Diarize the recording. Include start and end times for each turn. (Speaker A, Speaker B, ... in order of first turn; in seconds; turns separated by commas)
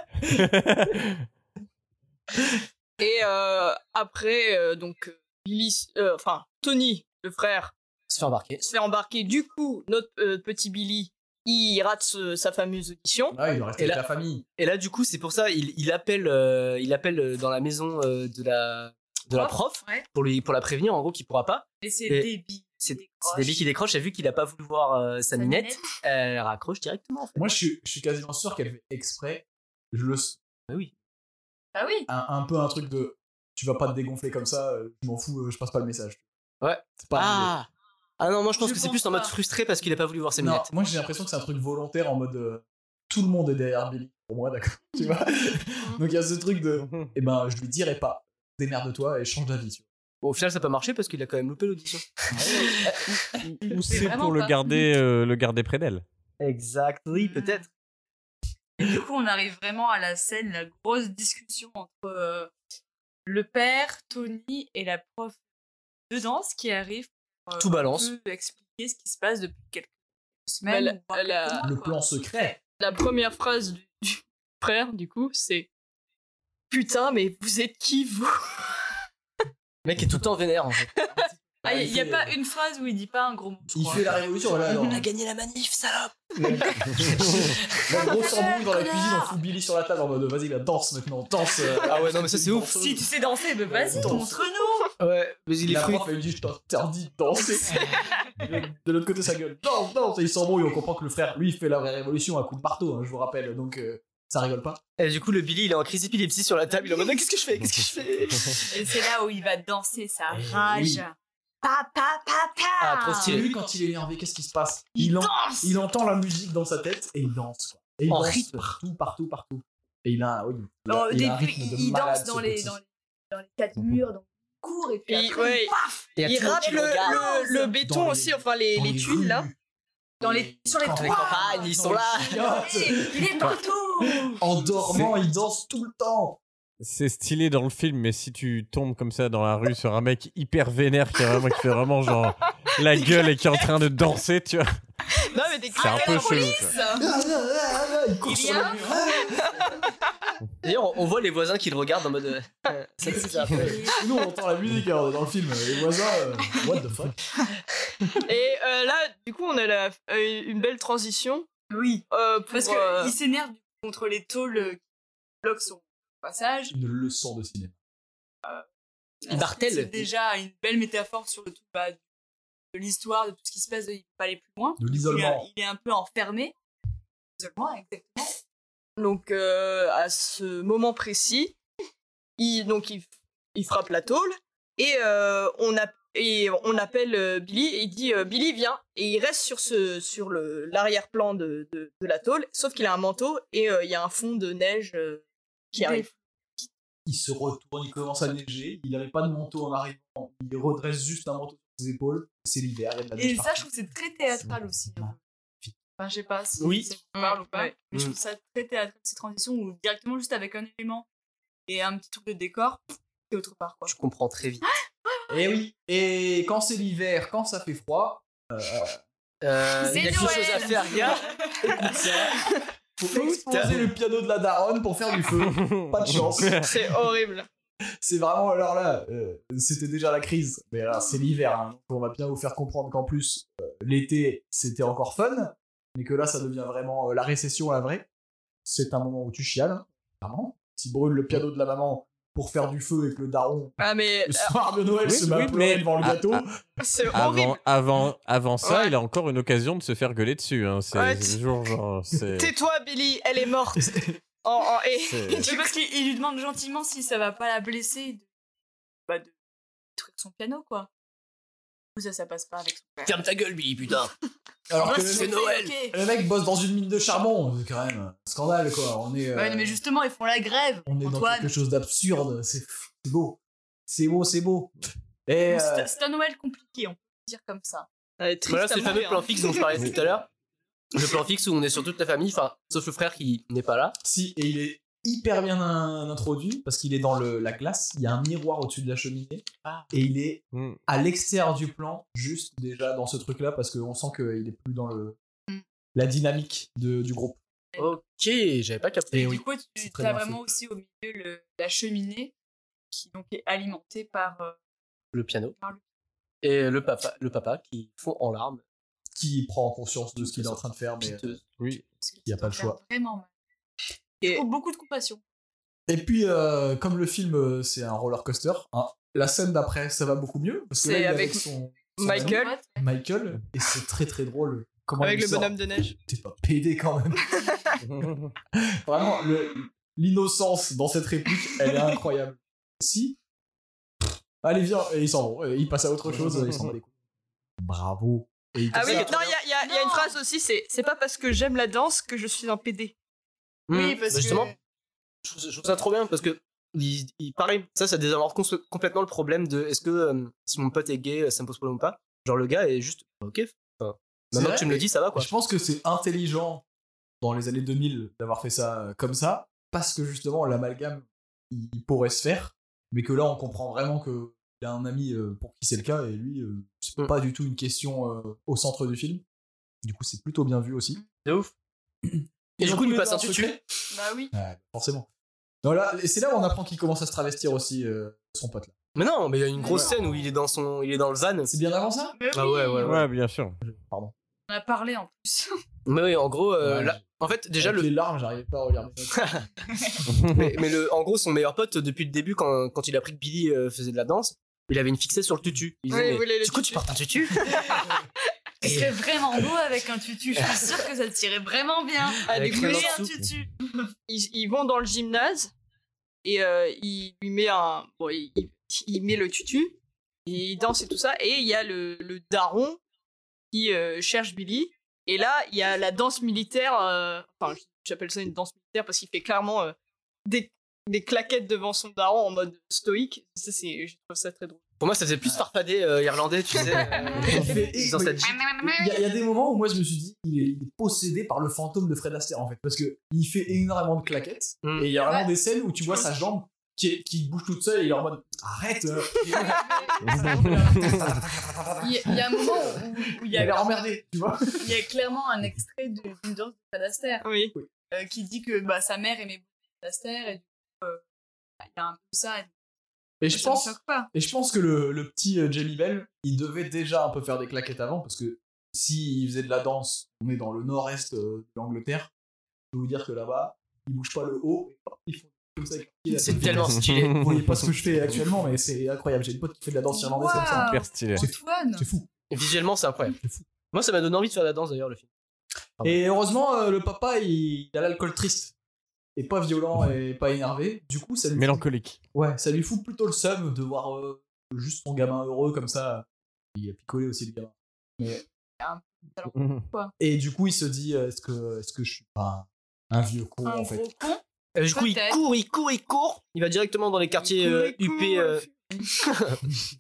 Speaker A: 0.3-1.2, Speaker B: 3.0-7.8, Speaker C: 8.1-8.7, Speaker B: 8.6-13.4, Speaker D: 13.3-14.4, Speaker C: 14.6-22.3, Speaker E: 19.3-20.1, Speaker E: 21.8-23.6, Speaker C: 22.8-27.4, Speaker E: 25.3-26.0, Speaker D: 27.4-30.4, Speaker E: 31.7-32.1, Speaker D: 32.1-36.2, Speaker C: 36.6-40.7, Speaker D: 37.0-37.5, Speaker E: 38.6-39.4, Speaker D: 40.4-49.9, Speaker A: 46.8-47.1, Speaker C: 50.2-53.2, Speaker D: 52.3-53.0, Speaker A: 53.5-56.0, Speaker E: 53.6-54.8, Speaker C: 56.4-57.7, Speaker E: 57.1-57.6, Speaker E: 58.8-62.5, Speaker E: 63.3-65.4, Speaker E: 66.1-69.9, Speaker C: 67.6-68.1, Speaker E: 70.5-72.0, Speaker B: 70.7-71.7, Speaker D: 71.6-72.6, Speaker B: 72.8-75.7, Speaker B: 76.7-79.0, Speaker C: 79.8-80.9, Speaker B: 81.0-81.3, Speaker D: 81.6-82.3, Speaker E: 81.6-84.1, Speaker D: 83.7-85.1, Speaker E: 84.7-85.0, Speaker C: 84.8-87.3, Speaker D: 86.5-93.1, Speaker E: 86.5-89.4, Speaker C: 91.8-92.7, Speaker E: 92.7-94.9, Speaker D: 93.6-94.5, Speaker C: 95.0-96.0, Speaker D: 95.7-104.8, Speaker B: 97.7-98.1, Speaker C: 105.0-107.3, Speaker B: 106.7-108.7, Speaker E: 108.7-113.5, Speaker D: 110.3-111.0, Speaker C: 112.8-113.5, Speaker D: 113.2-122.8, Speaker E: 115.0-115.8, Speaker C: 118.1-118.6, Speaker E: 120.9-127.8, Speaker D: 123.8-124.0, Speaker B: 125.1-129.5, Speaker C: 126.2-127.4, Speaker D: 127.8-129.6, Speaker D: 130.2-133.6, Speaker E: 130.2-134.4, Speaker C: 130.9-132.4, Speaker D: 134.2-136.4, Speaker A: 136.8-144.7, Speaker B: 145.2-146.6, Speaker E: 145.7-147.1, Speaker A: 145.8-146.7, Speaker D: 147.0-149.7, Speaker E: 148.2-149.5, Speaker B: 149.3-149.8, Speaker C: 150.6-153.9, Speaker E: 153.0-154.1, Speaker D: 153.1-157.2, Speaker B: 158.2-161.5, Speaker E: 161.7-164.8, Speaker B: 162.1-163.2, Speaker E: 165.4-166.8, Speaker D: 166.7-167.7, Speaker E: 169.2-172.0, Speaker C: 169.3-170.1, Speaker E: 172.7-176.6, Speaker D: 174.8-175.5, Speaker E: 177.4-178.3, Speaker B: 179.0-181.6, Speaker B: 182.4-196.1, Speaker E: 195.7-196.7, Speaker D: 197.1-203.7, Speaker E: 203.2-205.2, Speaker D: 205.0-205.8, Speaker E: 206.0-211.1, Speaker C: 206.6-206.9, Speaker B: 207.1-207.7, Speaker E: 211.7-213.9, Speaker C: 213.9-214.6, Speaker E: 214.6-215.4, Speaker D: 215.3-219.0, Speaker C: 219.4-221.2, Speaker E: 219.8-222.0, Speaker D: 219.9-220.5, Speaker B: 220.1-221.2, Speaker D: 221.6-226.6, Speaker C: 223.4-223.8, Speaker A: 225.4-226.8, Speaker B: 226.5-227.5, Speaker D: 228.0-238.1, Speaker D: 238.7-246.5, Speaker B: 243.8-244.6, Speaker A: 245.0-246.4, Speaker B: 246.8-247.6, Speaker A: 247.1-252.5, Speaker B: 248.6-248.9, Speaker B: 250.9-251.4, Speaker B: 252.4-255.7, Speaker D: 253.8-254.2, Speaker A: 255.1-255.5, Speaker E: 255.4-258.3, Speaker E: 259.1-259.3, Speaker E: 260.0-260.9, Speaker E: 261.9-263.2, Speaker C: 263.0-264.1, Speaker D: 264.7-269.8, Speaker E: 264.8-266.0, Speaker C: 264.9-265.7, Speaker E: 269.3-271.5, Speaker D: 270.9-274.7, Speaker D: 275.3-275.9, Speaker E: 275.5-277.9, Speaker B: 278.2-279.9, Speaker C: 278.5-280.3, Speaker C: 280.9-284.0, Speaker D: 284.0-295.2, Speaker A: 290.5-290.8, Speaker D: 295.9-297.4, Speaker C: 297.8-299.3, Speaker D: 299.1-300.4, Speaker E: 299.2-302.3, Speaker E: 302.9-304.6, Speaker C: 305.1-305.6, Speaker C: 306.4-308.6, Speaker D: 309.1-311.4, Speaker C: 310.2-311.4, Speaker E: 311.8-313.3, Speaker D: 312.2-312.8, Speaker E: 314.2-315.2, Speaker D: 315.9-327.3, Speaker B: 320.8-321.4, Speaker B: 322.0-322.6, Speaker E: 322.1-322.9, Speaker B: 325.0-326.0, Speaker B: 327.3-327.8, Speaker A: 327.9-328.3, Speaker D: 328.6-333.2, Speaker D: 334.4-336.9, Speaker A: 336.4-336.7, Speaker D: 337.6-339.1, Speaker C: 338.7-339.4, Speaker B: 338.7-342.9, Speaker E: 339.6-340.1, Speaker C: 343.7-344.5, Speaker E: 343.7-344.5, Speaker B: 344.2-344.4, Speaker C: 345.2-355.3, Speaker D: 354.3-356.6, Speaker D: 357.2-369.2, Speaker D: 369.8-371.0, Speaker C: 371.2-371.5, Speaker D: 372.0-373.6, Speaker C: 372.6-373.6, Speaker E: 373.9-374.3, Speaker D: 374.3-375.1, Speaker D: 375.6-378.8, Speaker C: 378.9-381.5, Speaker E: 379.6-380.2, Speaker D: 381.5-382.2, Speaker E: 382.2-383.0, Speaker C: 382.3-383.1, Speaker A: 382.8-383.6, Speaker D: 383.6-384.1, Speaker E: 384.5-385.5, Speaker C: 385.9-387.9, Speaker D: 386.6-387.1, Speaker D: 387.6-389.4, Speaker C: 389.2-389.5, Speaker C: 390.2-397.8, Speaker B: 395.9-396.9, Speaker B: 397.4-397.8, Speaker E: 398.6-403.5, Speaker C: 398.6-399.4, Speaker C: 400.4-400.7, Speaker B: 402.3-403.0, Speaker C: 402.3-403.1, Speaker B: 404.1-405.5, Speaker B: 406.2-412.8, Speaker B: 413.5-424.6, Speaker C: 424.8-428.4, Speaker D: 427.1-439.8, Speaker C: 434.6-434.9, Speaker E: 435.0-435.3, Speaker B: 439.3-439.6, Speaker E: 439.3-441.2, Speaker A: 440.1-441.0, Speaker E: 441.8-443.6, Speaker D: 443.3-444.7, Speaker E: 444.6-447.3, Speaker B: 447.2-447.5, Speaker E: 447.9-451.0, Speaker E: 451.6-452.5, Speaker D: 453.2-462.1, Speaker E: 453.3-454.1, Speaker D: 462.7-472.1, Speaker C: 466.1-467.2, Speaker A: 466.8-467.7, Speaker E: 469.9-471.9, Speaker A: 470.3-471.2, Speaker C: 472.3-475.1, Speaker D: 473.2-473.4, Speaker D: 475.8-478.5, Speaker D: 479.2-488.2, Speaker A: 481.4-482.0, Speaker E: 488.6-489.9, Speaker A: 489.4-489.6, Speaker D: 490.0-493.9, Speaker E: 493.4-495.2, Speaker C: 494.6-498.5, Speaker B: 497.2-498.7, Speaker C: 499.0-499.4